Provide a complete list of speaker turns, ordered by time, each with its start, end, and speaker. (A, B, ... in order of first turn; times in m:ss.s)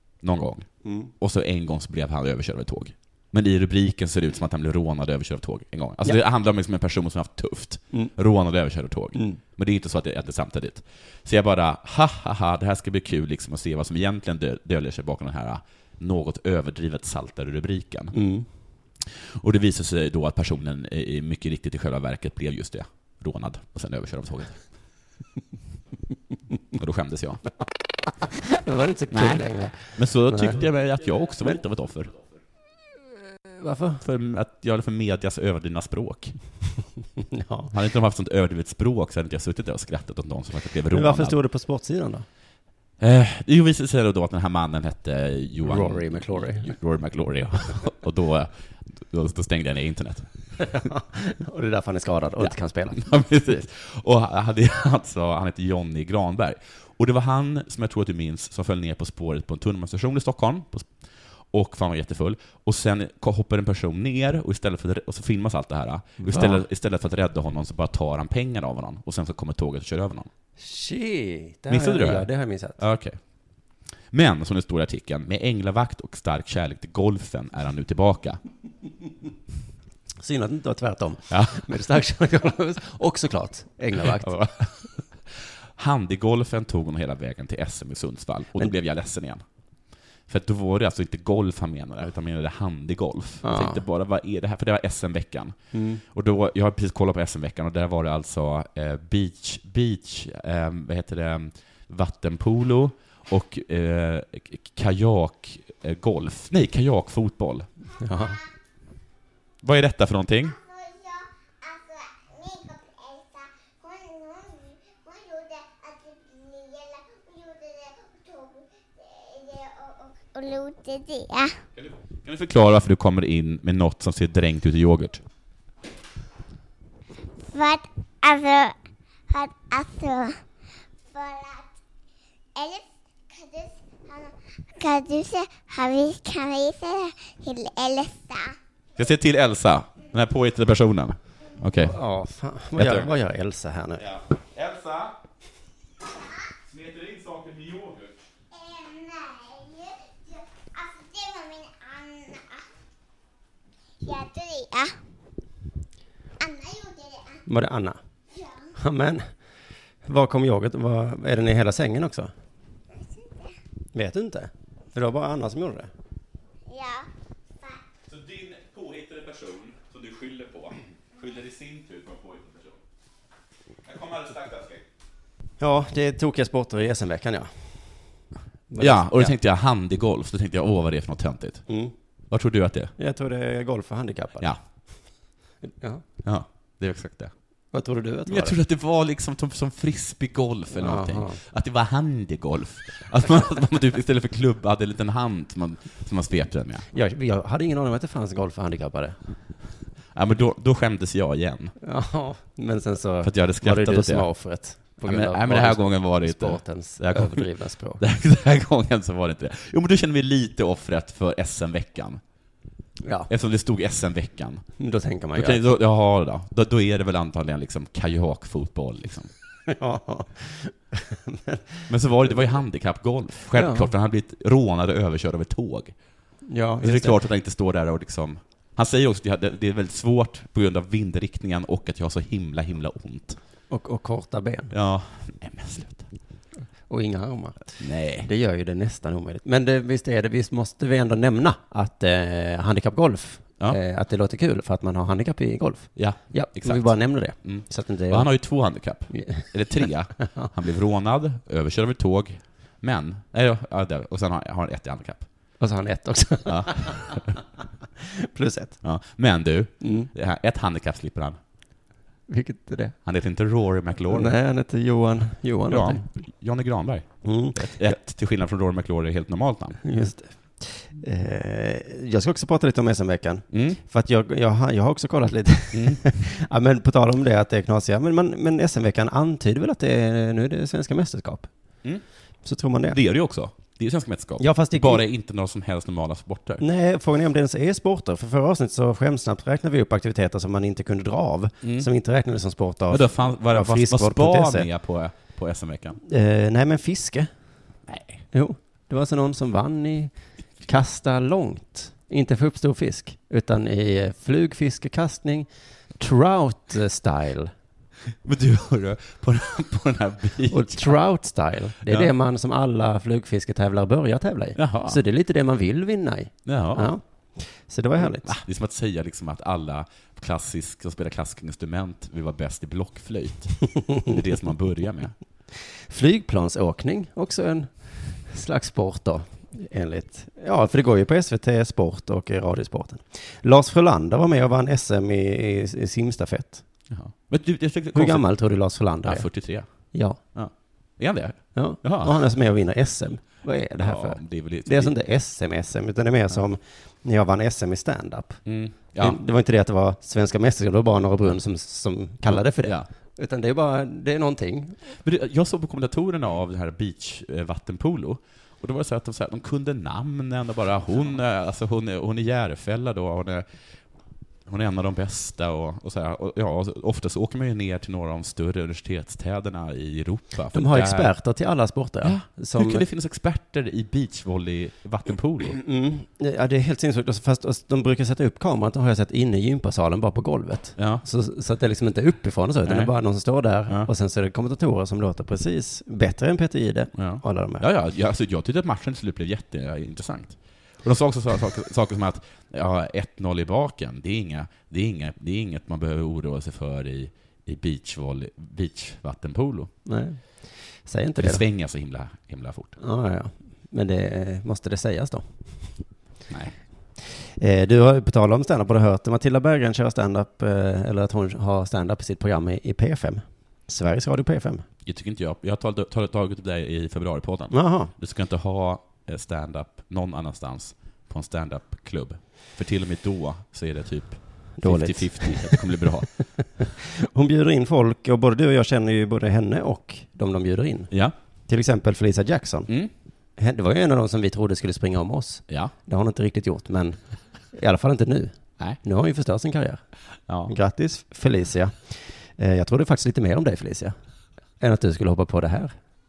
0:00.2-0:18.2 A
0:00.8-0:01.1 B
0:09.2-0:09.4 B
0:18.1-0:18.5 B
0:19.0-0:24.6 A
0:26.7-0:27.5 A
0:28.5-0:30.6 B
0:29.1-0:32.2 A
0:33.6-0:34.0 B
0:34.0-0:36.4 A
0:37.3-0:37.7 B
0:37.7-0:41.4 A
0:40.9-0:42.2 B
0:43.0-0:50.5 A
0:45.6-0:46.7 B
0:50.6-0:53.0 B
0:52.9-1:01.0 A
1:01.5-1:10.3 A
1:06.2-1:06.6 B
1:10.6-1:12.8 B
1:11.7-1:13.2 A
1:14.1-1:18.4 A
1:20.2-1:24.7 B
1:21.3-1:21.7 A
1:24.0-1:24.6 A
1:25.4-1:29.4 A
1:30.3-1:47.7 A
1:33.4-1:33.8 B
1:35.7-1:36.0 B
1:48.0-1:48.4 B
1:48.1-1:48.5 C
1:49.6-1:50.6 A
1:50.4-2:01.6 C
2:01.8-2:05.2 A
2:07.4-2:08.8 C
2:09.3-2:10.4 C
2:11.1-2:11.7 C
2:12.6-2:18.6 C
2:19.0-2:22.0 A
2:21.8-2:24.1 B
2:22.8-2:23.1 A
2:24.0-2:25.2 A
2:26.1-2:26.4 C
2:26.7-2:28.2 A
2:28.5-2:32.7 C
2:34.0-2:35.0 C
2:36.4-2:37.4 C
2:37.5-2:38.0 B
2:38.3-2:38.7 C
2:38.8-2:39.3 B
2:40.1-2:42.3 B
2:43.0-2:43.5 C
2:43.9-2:45.9 B
2:46.7-2:47.1 C
2:48.1-2:52.8 A
2:53.8-2:54.9 A
2:55.6-2:58.0 B
2:58.7-2:59.3 B
2:58.8-3:01.7 A
3:01.7-3:01.9 B
3:02.3-3:02.9 A
3:03.0-3:05.0 B
3:05.6-3:06.0 B
3:06.2-3:07.4 A
3:07.7-3:08.6 B
3:08.3-3:16.9 A
3:10.8-3:11.4 B
3:16.9-3:19.2 B
3:20.1-3:21.8 A
3:21.8-3:28.0 B
3:23.2-3:24.3 A
3:25.0-3:32.2 A
3:33.0-3:33.3 B
3:33.3-3:34.7 A
3:34.8-3:35.6 B
3:35.4-3:39.3 A
3:39.7-3:42.3 B
3:41.9-3:46.0 A
3:43.5-3:43.9 B
3:46.5-3:47.2 B
3:46.8-3:53.4 A
3:53.7-3:54.7 B
3:54.7-3:56.1 A
3:56.9-4:08.6 B
3:57.8-3:58.3 A
4:06.0-4:15.3 A
4:09.1-4:09.5 B
4:15.6-4:17.4 B
4:16.5-4:17.3 A
4:18.0-4:18.8 B
4:18.8-4:21.4 A
4:19.8-4:20.1 B
4:22.3-4:23.0 B
4:23.0-4:24.4 A
4:24.1-4:26.1 B
4:25.7-4:29.8 A
4:27.2-4:28.0 B
4:29.8-4:41.5 B
4:33.5-4:33.8 A
4:35.7-4:36.0 A
4:42.4-4:43.0 B
4:42.9-4:46.6 A
4:44.4-4:45.0 B
4:46.6-4:54.7 B
4:51.6-4:51.9 A
4:52.9-4:56.0 A
4:56.0-4:57.3 B
4:57.9-4:58.2 A
4:58.3-5:05.5 B
5:06.0-5:07.5 B
5:08.2-5:11.0 A
5:10.5-5:18.3 B
5:11.8-5:12.1 A
5:14.6-5:15.0 A
5:16.5-5:16.9 A
5:18.0-5:25.2 A
5:25.6-5:36.6 B
5:36.9-5:38.3 A
5:37.9-5:39.3 B
5:39.0-5:42.2 A
5:39.9-5:40.2 B
5:41.6-5:48.4 B
5:43.8-5:45.0 A
5:48.5-5:49.2 A
5:49.0-5:54.8 B
5:52.3-5:52.9 A
5:55.0-6:03.5 A
6:04.5-6:11.1 A
6:10.5-6:12.8 B
6:12.0-6:15.6 A
6:15.6-6:27.6 B
6:20.8-6:21.0 A
6:22.6-6:22.9 A
6:27.0-6:39.7 A
6:39.8-6:41.4 B
6:41.2-6:42.8 A
6:42.8-6:45.8 B
6:46.3-6:46.6 A
6:47.0-6:54.7 B
6:54.8-7:06.2 A
6:57.5-6:57.9 B
7:04.6-7:05.8 B
7:06.4-7:10.9 B
7:11.5-7:12.7 B
7:13.4-7:17.0 B
7:17.5-7:19.8 B
7:20.3-7:20.5 A
7:20.5-7:24.0 B
7:24.6-7:25.8 B